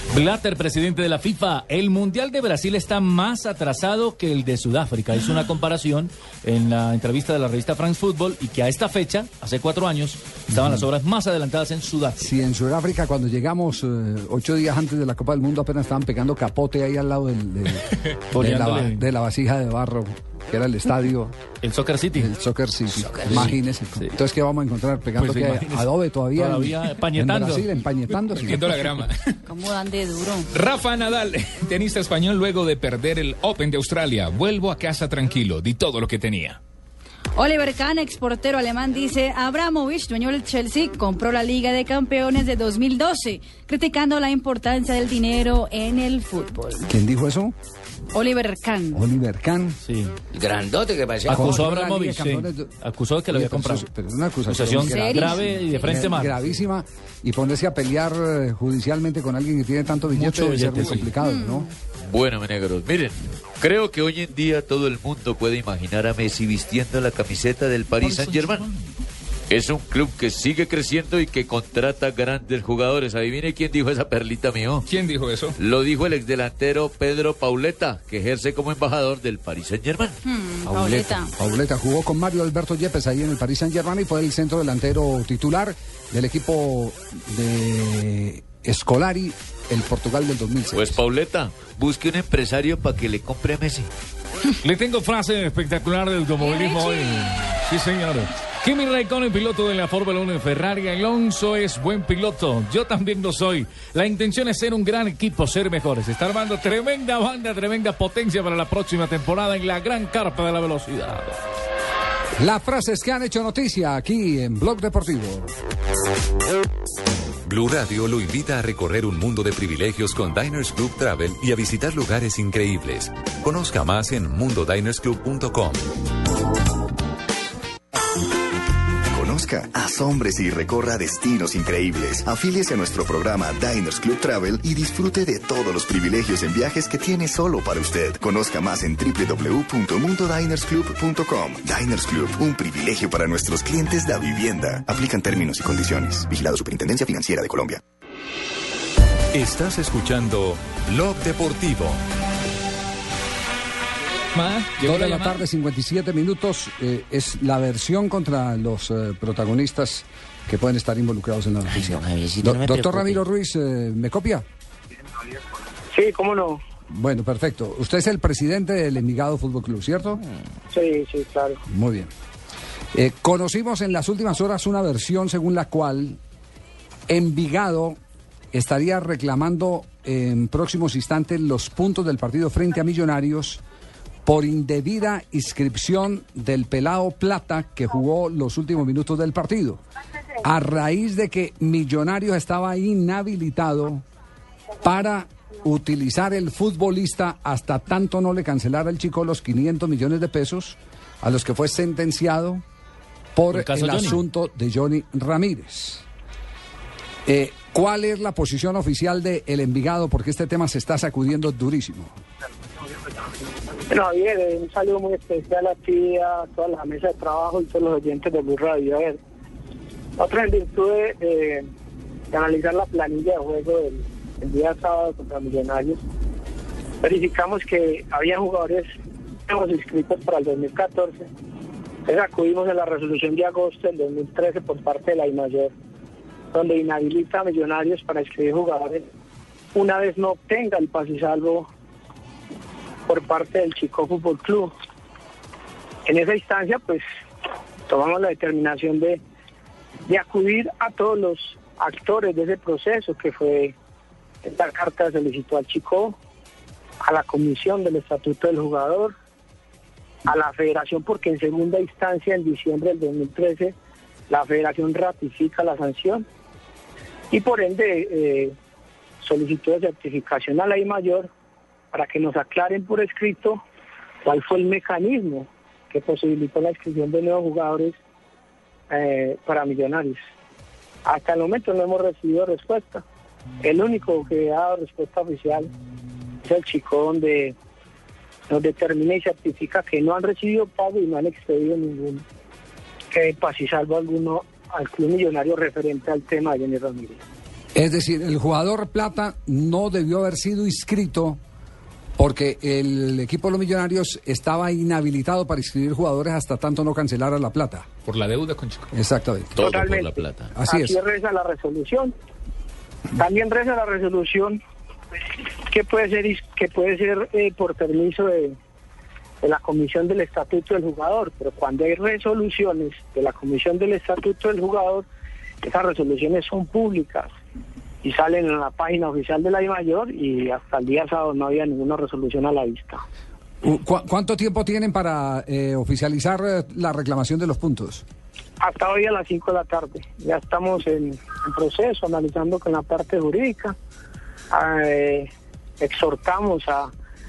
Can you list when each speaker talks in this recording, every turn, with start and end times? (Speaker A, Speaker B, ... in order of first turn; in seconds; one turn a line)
Speaker A: 0.1-12.3
Speaker B: 10.5-10.9
Speaker B: 12.2-21.3
Speaker A: 18.3-19.0
Speaker A: 21.6-22.3
Speaker B: 22.1-28.8
Speaker C: 23.0-23.5
Speaker A: 23.3-24.1
Speaker A: 25.2-27.7
Speaker D: 28.3-29.2
Speaker E: 29.4-30.5
Speaker D: 30.5-36.6
Speaker E: 37.4-46.8
Speaker B: 46.9-47.5
Speaker E: 48.1-49.0
Speaker B: 48.9-49.8
Speaker A: 49.8-50.1
Speaker C: 50.3-51.6
Speaker A: 51.3-53.8
Speaker B: 51.3-52.7
Speaker B: 53.3-61.7
Speaker A: 54.5-56.5
Speaker E: 54.8-56.1
Speaker A: 60.1-61.1
Speaker E: 61.2-61.7
Speaker F: 62.1-68.6
Speaker F: 69.5-74.8
Speaker D: 74.8-75.5
Speaker F: 75.6-80.2
Speaker E: 80.2-81.3
Speaker B: 80.7-91.0
Speaker F: 90.7-93.9
Speaker A: 94.6-111.3
Speaker E: 96.4-97.2
Speaker B: 112.4-115.5
Speaker G: 117.5-125.8
Speaker H: 129.1-147.8
Speaker G: 149.3-152.0
Speaker D: 154.3-155.4
Speaker B: 154.8-164.4
Speaker C: 161.7-163.2
Speaker I: 165.9-166.6
Speaker B: 166.9-170.2
Speaker I: 170.7-171.6
Speaker B: 171.7-172.1
Speaker B: 172.9-176.2
Speaker B: 177.1-178.0
Speaker B: 178.5-183.6
Speaker B: 184.2-189.8
Speaker B: 190.4-194.0
Speaker B: 194.8-202.6
Speaker B: 203.3-206.0
Speaker A: 203.5-204.2
Speaker B: 207.2-212.2
Speaker I: 213.9-219.2
Speaker I: 220.2-221.7
Speaker I: 222.3-226.0
Speaker I: 227.0-228.9
Speaker I: 229.5-231.3
Speaker I: 232.1-235.7
Speaker I: 236.5-239.1
Speaker I: 239.7-241.7
Speaker I: 243.1-244.7
Speaker I: 246.1-247.1
Speaker I: 247.9-249.2
Speaker I: 250.1-253.7
Speaker I: 254.4-256.2
Speaker I: 257.0-259.1
Speaker I: 260.2-263.7
Speaker I: 264.3-266.2
Speaker I: 267.3-268.5
Speaker I: 269.2-271.3
Speaker I: 271.9-273.6
Speaker I: 274.2-278.0
Speaker I: 278.9-280.2
Speaker I: 281.0-283.0
Speaker I: 283.6-285.7
Speaker I: 286.4-287.5
Speaker I: 288.5-292.2
Speaker I: 293.1-297.2
Speaker B: 297.7-301.4
Speaker B: 302.2-307.9
Speaker D: 308.1-308.9
Speaker B: 308.9-309.6
Speaker F: 309.5-310.5
Speaker I: 309.6-310.1
Speaker B: 310.5-310.9
Speaker I: 310.6-312.1
Speaker I: 313.1-314.6
Speaker I: 315.7-318.6
Speaker I: 319.4-325.1
Speaker I: 325.6-327.3
Speaker I: 328.0-333.0
Speaker B: 333.6-338.0
Speaker I: 338.6-343.7
Speaker I: 344.5-345.3
Speaker I: 345.8-346.9